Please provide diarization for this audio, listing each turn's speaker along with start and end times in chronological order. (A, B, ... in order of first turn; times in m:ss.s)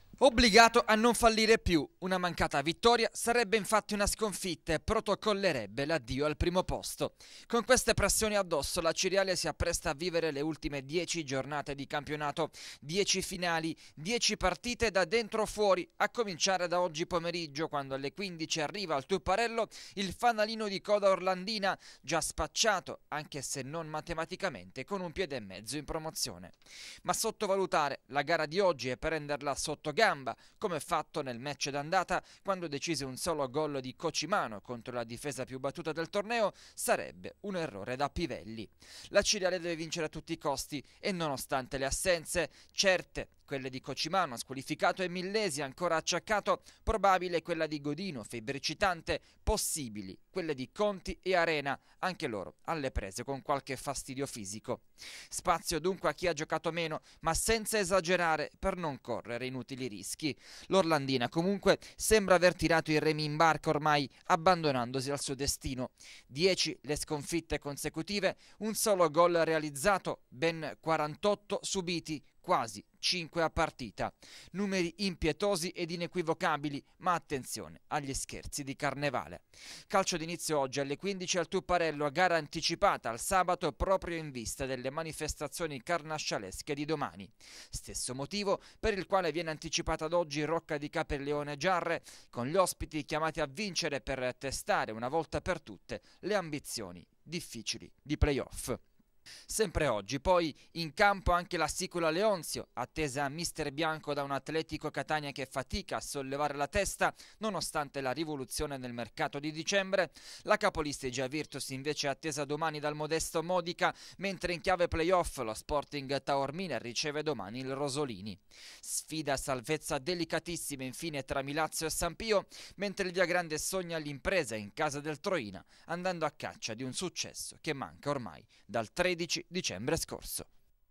0:00.2-1:38.8 A
1:39.5-2:10.5 A